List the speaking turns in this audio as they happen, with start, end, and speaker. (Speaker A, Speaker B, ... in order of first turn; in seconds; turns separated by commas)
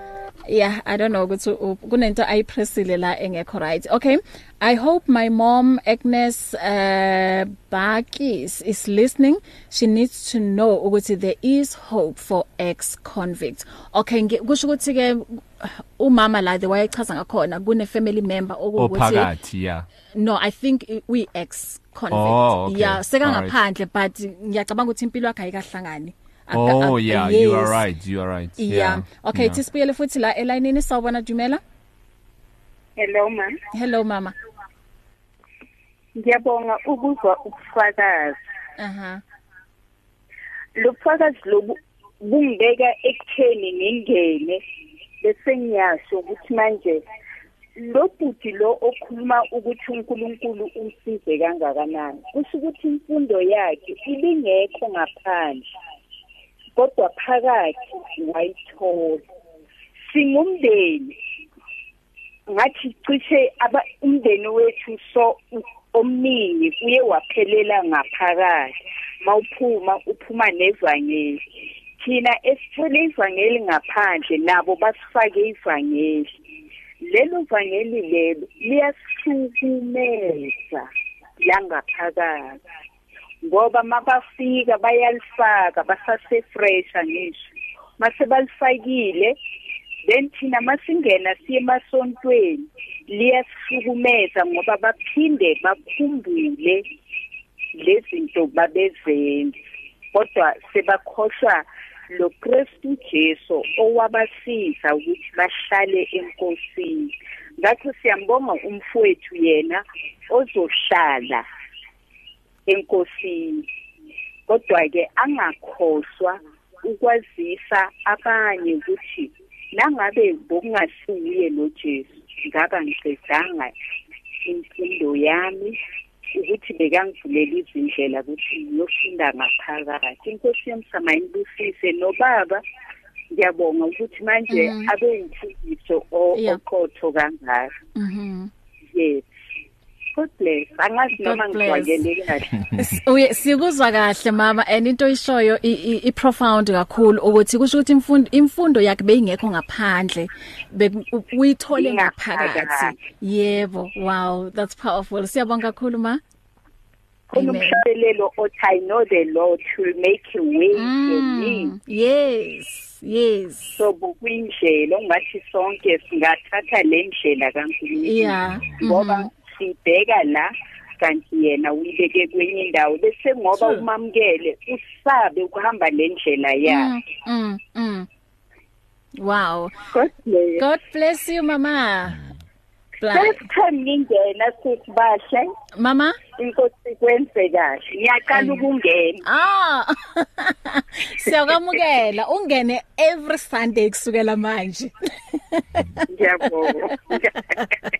Speaker A: 0.5-19.3, Speaker B: 18.8-19.9, Speaker A: 20.1-27.8, Speaker B: 22.1-23.6, Speaker B: 26.5-29.6, Speaker A: 28.6-31.6, Speaker C: 33.0-33.6, Speaker A: 33.7-34.3, Speaker C: 36.1-38.4, Speaker A: 38.8-39.2, Speaker C: 40.8-44.6, Speaker C: 45.2-47.0, Speaker C: 47.8-55.6, Speaker C: 56.8-59.2, Speaker C: 60.1-61.1, Speaker C: 62.5-71.4, Speaker C: 72.0-76.3, Speaker C: 77.0-80.8, Speaker C: 81.4-82.6, Speaker C: 83.4-87.4, Speaker C: 88.0-89.3, Speaker C: 90.0-96.8, Speaker C: 97.7-99.5, Speaker C: 100.1-111.4, Speaker C: 112.7-113.7, Speaker C: 114.5-123.7, Speaker C: 124.4-125.8, Speaker C: 126.3-132.6, Speaker C: 133.3-137.7, Speaker A: 134.5-134.9, Speaker A: 136.3-136.6, Speaker A: 137.9-138.5, Speaker C: 138.9-139.2, Speaker C: 140.1-142.5, Speaker A: 141.2-142.0, Speaker A: 142.7-156.2, Speaker C: 151.7-152.9, Speaker C: 157.3-161.7, Speaker A: 157.3-157.8, Speaker A: 160.7-163.8, Speaker C: 163.8-176.9, Speaker A: 168.0-169.3, Speaker A: 176.6-178.1, Speaker A: 179.2-179.8, Speaker C: 179.9-180.6, Speaker A: 180.6-182.2, Speaker A: 183.0-183.4, Speaker C: 183.1-185.5, Speaker A: 185.8-186.2, Speaker C: 186.4-189.2, Speaker A: 188.3-188.7, Speaker A: 189.2-197.7, Speaker C: 196.1-197.6